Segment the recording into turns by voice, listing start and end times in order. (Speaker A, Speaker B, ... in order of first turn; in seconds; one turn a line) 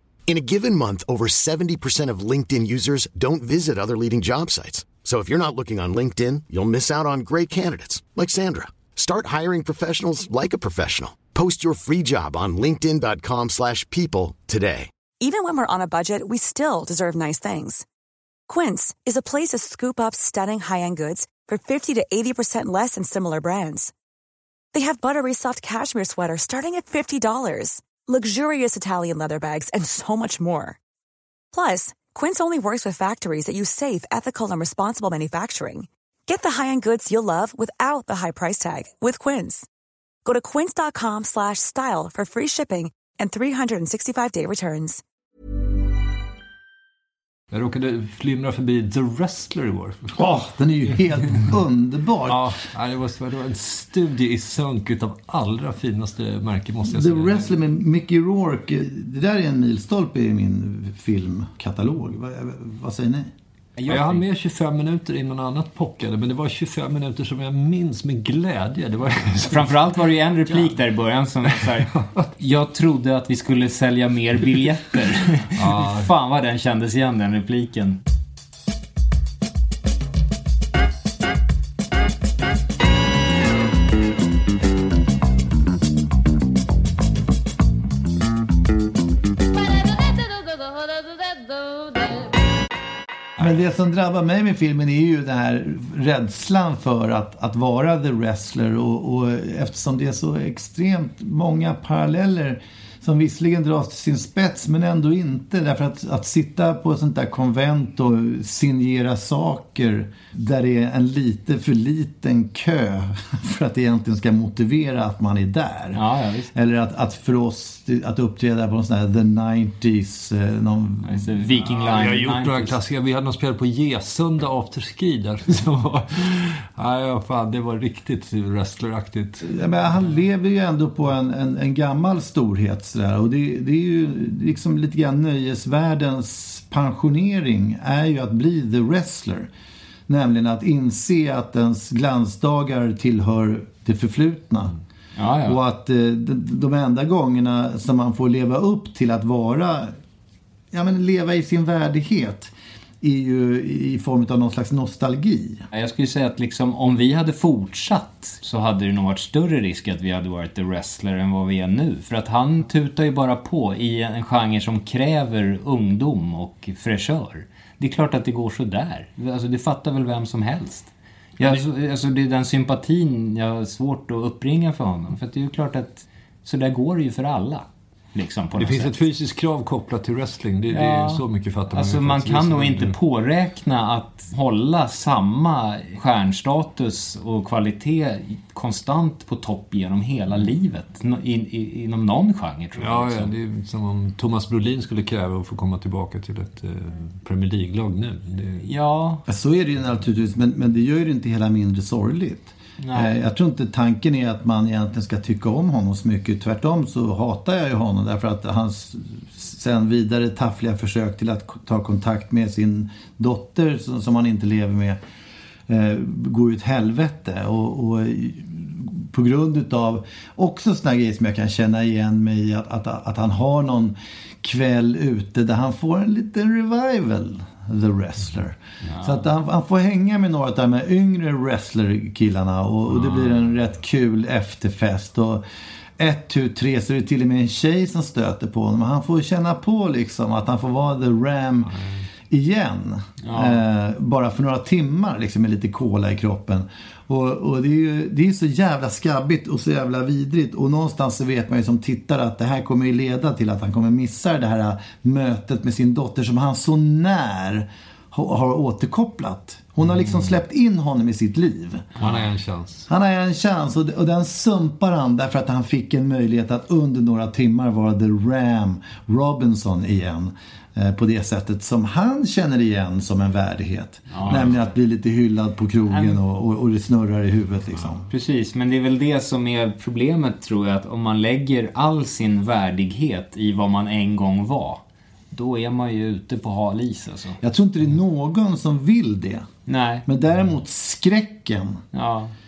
Speaker A: 0.3-14.9
Speaker B: 15.2-17.8
Speaker B: 18.5-23.9
Speaker B: 24.7-30.8
Speaker B: 31.5-39.7
Speaker B: 40.2-45.0
Speaker C: 47.5-50.2
Speaker D: 50.1-52.5
Speaker C: 52.3-57.5
Speaker D: 56.9-63.3
Speaker E: 63.8-64.2
Speaker C: 63.9-70.0
Speaker E: 69.5-78.0
Speaker C: 71.6-72.3
Speaker C: 75.6-76.1
Speaker D: 93.4-121.4
Speaker E: 115.9-116.5
Speaker E: 121.0-122.8
Speaker C: 121.5-129.5
Speaker D: 129.4-139.5
Speaker D: 140.1-144.7
Speaker E: 145.2-145.6
Speaker D: 145.4-150.0
Speaker D: 150.7-155.7
Speaker E: 155.7-178.9
Speaker C: 171.4-171.7
Speaker C: 178.6-183.0
Speaker E: 180.7-193.3
Speaker C: 192.8-198.7
Speaker E: 198.6-199.2
Speaker D: 199.3-215.0
Speaker E: 202.8-203.2
Speaker D: 215.7-235.4
Speaker E: 228.9-229.2
Speaker D: 236.0-262.0
Speaker C: 241.7-242.1
Speaker E: 243.2-243.6
Speaker C: 262.0-262.9
Speaker D: 262.9-278.1
Speaker E: 274.1-274.7
Speaker E: 275.9-276.2
Speaker E: 278.1-284.8
Speaker E: 285.3-287.4
Speaker D: 287.4-289.5
Speaker E: 289.7-290.1
Speaker D: 290.1-291.8
Speaker E: 291.9-292.3